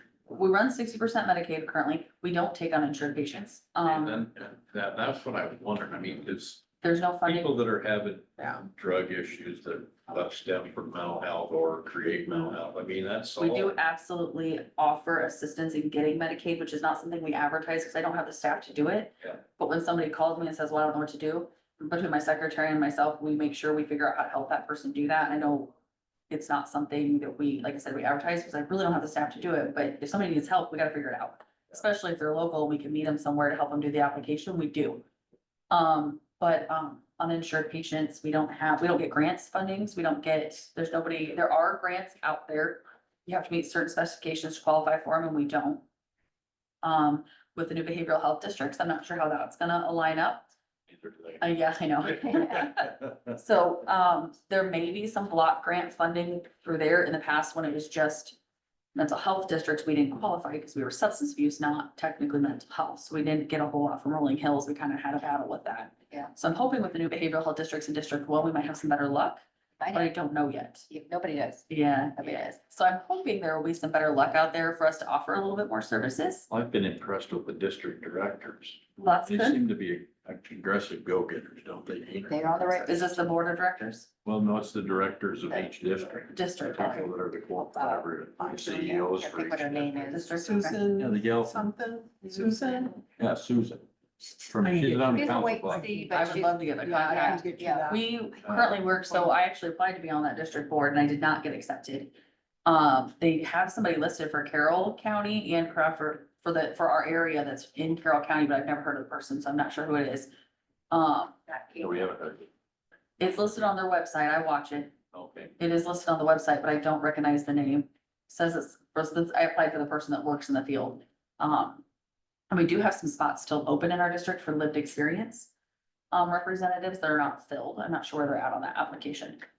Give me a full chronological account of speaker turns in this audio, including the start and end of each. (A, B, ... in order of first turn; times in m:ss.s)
0:00.3-0:04.2 A
0:03.8-0:06.7 B
0:06.8-0:07.5 A
0:07.2-0:13.8 B
0:08.4-0:08.7 C
0:13.4-0:25.7 A
0:26.3-0:35.0 A
0:35.7-0:45.8 A
0:46.8-0:50.5 A
0:50.9-0:51.4 B
0:51.4-0:58.4 A
0:59.0-1:09.4 A
1:09.8-1:10.2 D
1:09.9-1:10.9 A
1:10.9-1:12.6 D
1:11.7-1:16.5 A
1:16.5-1:22.8 B
1:19.0-1:19.6 A
1:22.3-1:23.3 D
1:22.8-1:24.1 A
1:24.2-1:30.2 B
1:25.5-1:25.9 D
1:26.3-1:27.0 A
1:26.7-1:30.8 D
1:28.6-1:28.8 C
1:30.1-1:30.8 A
1:30.3-1:33.0 C
1:31.0-1:31.6 B
1:33.2-1:35.9 B
1:34.6-1:38.1 C
1:35.1-1:37.9 D
1:36.1-1:42.1 A
1:38.4-1:38.8 B
1:42.7-1:50.3 A
1:50.9-1:51.4 A
1:51.5-1:51.9 D
1:51.8-1:52.5 B
1:53.2-1:55.0 A
1:55.1-1:55.5 B
1:55.6-2:01.8 A
2:02.5-2:05.5 A
2:06.1-2:09.4 A